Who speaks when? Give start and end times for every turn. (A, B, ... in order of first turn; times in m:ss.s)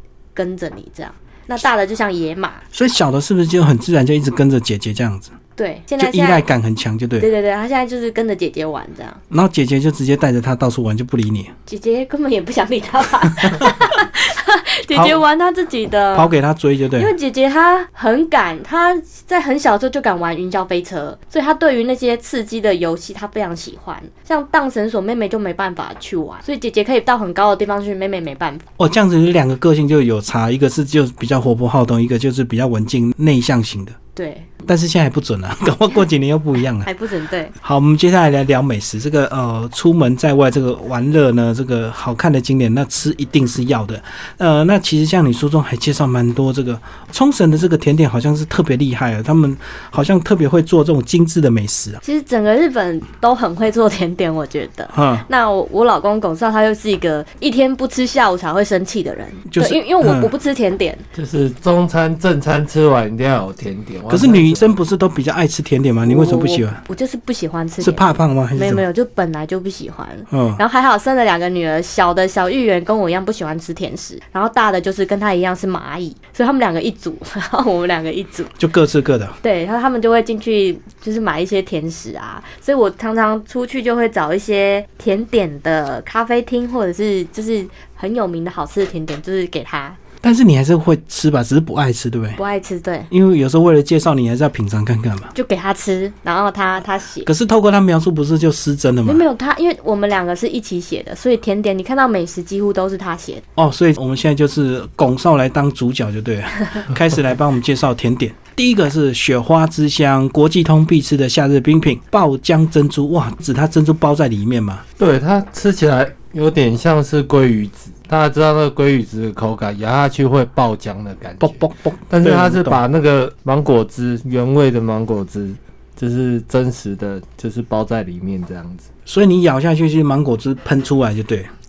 0:00.3-0:02.6 A
0:02.7-0:05.3 B
0:05.6-0:06.5 A
0:06.0-0:07.3 B
0:07.2-0:09.2 A
0:09.3-0:11.5 B
0:11.7-0:16.3 A
0:13.4-0:13.7 B
0:14.9-0:15.2 B
0:16.1-0:17.1 B
0:17.0-0:28.6 A
0:28.8-0:34.0 B
0:34.1-0:34.5 A
0:34.6-0:36.9 B
0:36.8-0:37.5 A
0:37.6-0:52.0 B
0:52.0-1:01.0 A
0:54.9-0:55.2 B
0:59.5-1:00.3 B
1:01.1-1:04.8 C
1:04.1-1:06.8 B
1:06.0-1:18.6 A
1:07.8-1:08.8 B
1:10.3-1:10.6 B
1:18.6-1:19.3 B
1:19.4-1:30.0 A
1:30.2-1:32.4 B
1:32.4-1:33.1 A
1:33.1-1:35.3 B
1:35.3-1:37.3 A
1:37.2-1:39.2 B
1:39.0-1:43.4 A
1:43.6-1:54.8 B
1:55.0-2:08.9 C
2:01.4-2:02.8 B
2:09.0-2:11.5 B